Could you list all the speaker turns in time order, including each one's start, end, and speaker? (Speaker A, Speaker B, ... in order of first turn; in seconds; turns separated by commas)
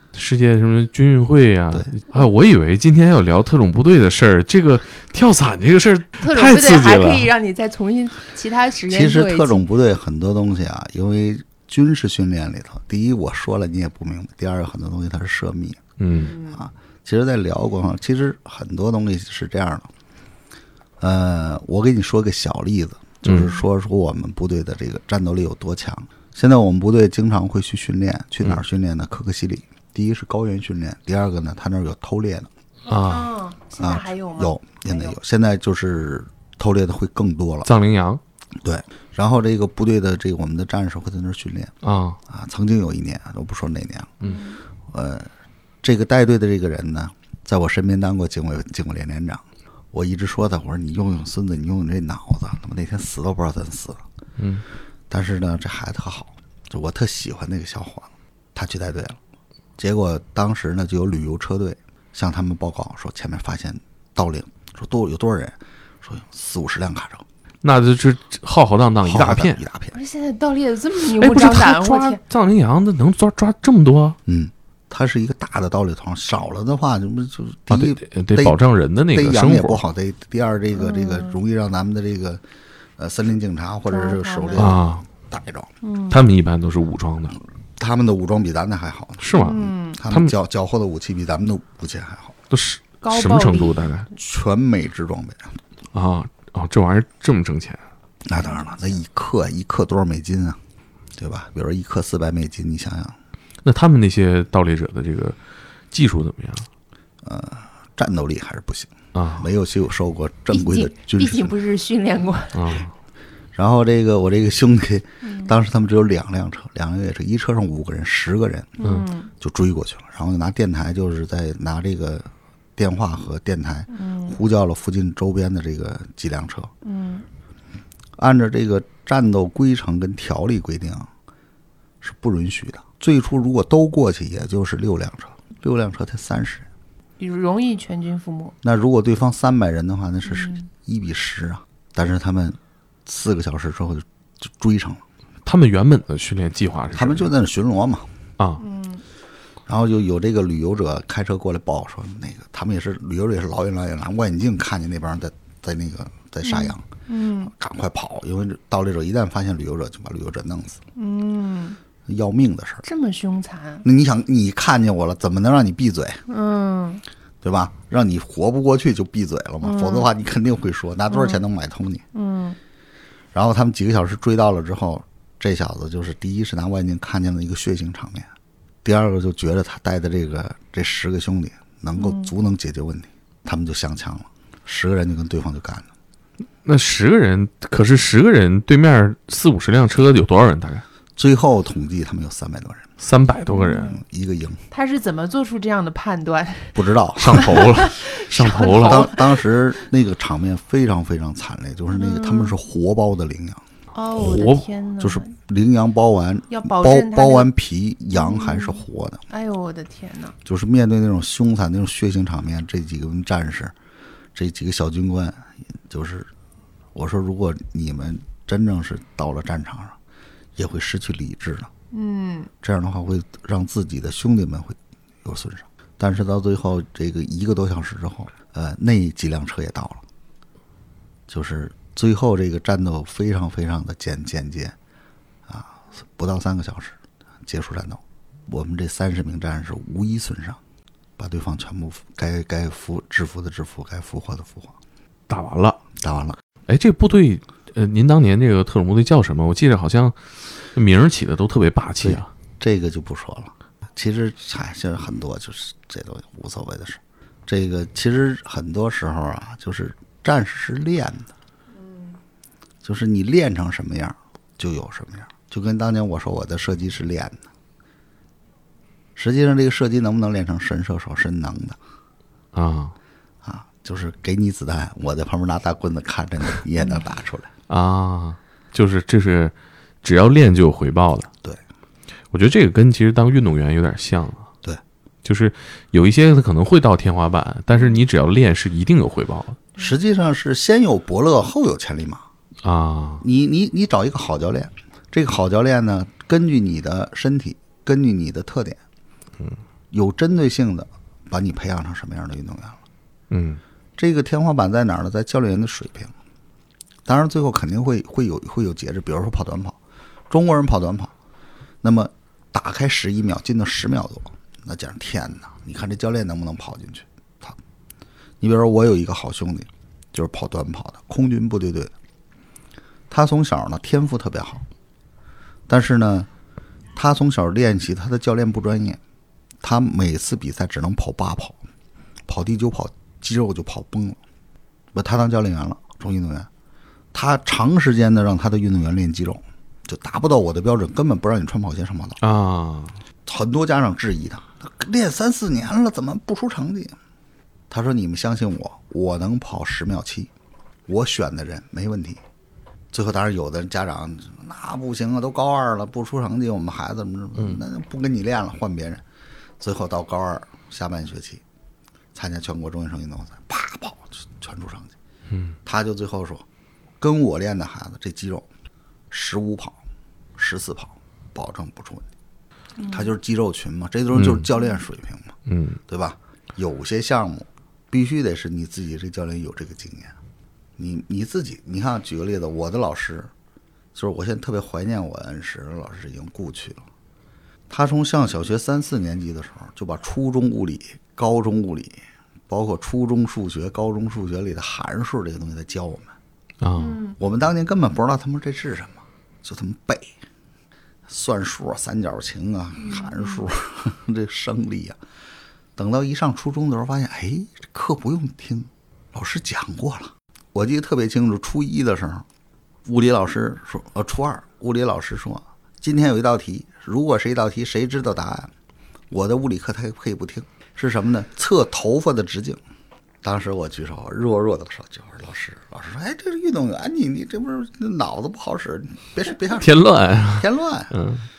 Speaker A: 0.1-7.3, Speaker B: 6.2-9.6, Speaker C: 8.9-15.8, Speaker A: 16.0-16.4, Speaker B: 16.1-16.6, Speaker C: 16.5-19.9, Speaker C: 21.0-32.5, Speaker A: 23.2-23.6, Speaker A: 32.9-33.3, Speaker B: 33.1-35.2, Speaker C: 33.8-37.7, Speaker A: 37.6-38.2, Speaker C: 38.6-41.7, Speaker A: 41.8-42.2, Speaker C: 42.3-44.2, Speaker B: 44.2-44.6, Speaker C: 44.9-45.3, Speaker C: 45.8-54.0, Speaker A: 54.4-54.6, Speaker C: 55.1-59.2, Speaker C: 59.8-67.2, Speaker A: 67.6-69.6, Speaker C: 69.0-70.0, Speaker B: 69.9-72.2, Speaker A: 71.2-74.2, Speaker C: 74.2-78.6, Speaker A: 77.7-79.8, Speaker C: 79.1-82.4, Speaker B: 80.7-81.4, Speaker C: 83.0-85.7, Speaker B: 83.9-84.8, Speaker A: 84.6-85.0, Speaker B: 85.8-86.2, Speaker A: 86.1-87.4, Speaker C: 87.8-92.3, Speaker A: 89.2-90.3, Speaker B: 89.3-90.0, Speaker A: 92.5-94.1, Speaker B: 93.0-93.9, Speaker C: 94.1-95.6, Speaker A: 95.9-97.8, Speaker C: 98.2-100.6, Speaker B: 98.4-99.0, Speaker C: 101.2-103.2, Speaker A: 103.6-105.4, Speaker A: 105.9-106.7, Speaker C: 107.2-111.5, Speaker A: 109.1-109.5, Speaker B: 110.5-112.8, Speaker A: 112.5-112.9, Speaker C: 113.5-118.8, Speaker B: 115.2-115.5, Speaker B: 118.8-119.3, Speaker A: 118.8-119.1, Speaker C: 119.4-126.7, Speaker B: 123.9-124.4, Speaker B: 126.8-127.2, Speaker C: 128.2-131.1, Speaker C: 132.0-136.7, Speaker B: 137.2-138.6, Speaker C: 138.6-145.0, Speaker B: 140.2-140.7, Speaker A: 145.4-147.3, Speaker C: 146.9-148.1, Speaker B: 148.6-149.0, Speaker C: 149.7-156.8, Speaker B: 156.4-157.5, Speaker C: 157.4-160.8, Speaker B: 160.9-161.8, Speaker C: 162.1-162.8, Speaker B: 162.8-163.8, Speaker C: 163.8-166.2, Speaker B: 166.3-167.0, Speaker C: 167.4-172.0, Speaker B: 169.6-170.1, Speaker B: 171.1-171.4, Speaker B: 172.1-172.6, Speaker C: 173.3-178.3, Speaker C: 178.8-185.9, Speaker B: 182.0-182.3, Speaker A: 186.6-190.8, Speaker C: 191.2-192.9, Speaker A: 193.0-194.0, Speaker B: 193.4-194.0, Speaker C: 194.0-194.6, Speaker B: 194.7-199.7, Speaker C: 196.7-197.6, Speaker A: 197.2-199.1, Speaker C: 198.8-203.6, Speaker B: 201.9-202.6, Speaker B: 203.9-205.3, Speaker A: 204.2-204.7, Speaker C: 205.0-209.2, Speaker B: 206.5-207.5, Speaker B: 208.1-210.3, Speaker C: 210.4-213.7, Speaker C: 214.3-216.3, Speaker C: 216.9-220.0, Speaker C: 220.6-221.7, Speaker B: 221.9-222.5, Speaker C: 222.6-230.0, Speaker C: 231.3-234.8, Speaker C: 235.5-240.6, Speaker C: 241.2-244.7, Speaker A: 245.3-245.8, Speaker C: 246.0-246.4, Speaker A: 246.7-250.2, Speaker A: 250.7-252.3, Speaker C: 252.0-261.3, Speaker B: 261.7-262.2, Speaker C: 262.8-267.4, Speaker C: 269.1-271.8, Speaker A: 272.5-272.9, Speaker C: 273.4-277.5, Speaker B: 276.8-277.0, Speaker A: 277.7-281.3, Speaker A: 282.3-284.5, Speaker A: 285.2-289.6, Speaker B: 287.7-288.0, Speaker C: 289.8-292.2, Speaker A: 292.6-293.2, Speaker C: 293.2-298.8, Speaker C: 299.9-302.8, Speaker A: 303.3-303.6, Speaker C: 304.0-306.1, Speaker C: 307.1-309.8, Speaker C: 310.3-311.1, Speaker C: 311.8-317.6, Speaker C: 318.4-321.9, Speaker C: 323.1-324.6, Speaker C: 325.7-326.3, Speaker C: 326.9-329.0, Speaker C: 329.6-331.6, Speaker C: 332.3-334.2, Speaker C: 334.9-336.5, Speaker C: 337.1-342.2, Speaker A: 342.2-343.0, Speaker C: 343.2-347.0, Speaker C: 347.7-350.3, Speaker C: 350.9-352.2, Speaker C: 352.9-359.0, Speaker C: 359.6-361.4, Speaker C: 362.1-364.9, Speaker A: 365.3-365.6, Speaker C: 365.6-366.4, Speaker C: 367.0-368.5, Speaker C: 369.1-369.8, Speaker C: 370.4-372.1, Speaker B: 372.8-373.1, Speaker C: 372.9-375.4, Speaker A: 374.1-374.4, Speaker A: 375.5-375.8, Speaker C: 375.9-380.1, Speaker C: 380.8-383.3, Speaker C: 383.9-386.8, Speaker C: 387.7-396.1, Speaker A: 396.6-397.0, Speaker B: 396.8-397.2, Speaker C: 397.2-400.1, Speaker C: 401.1-405.0, Speaker B: 402.8-403.4, Speaker C: 405.8-412.2, Speaker C: 412.9-418.5, Speaker C: 419.1-422.6, Speaker C: 423.2-429.8, Speaker A: 429.6-431.2, Speaker C: 430.4-430.9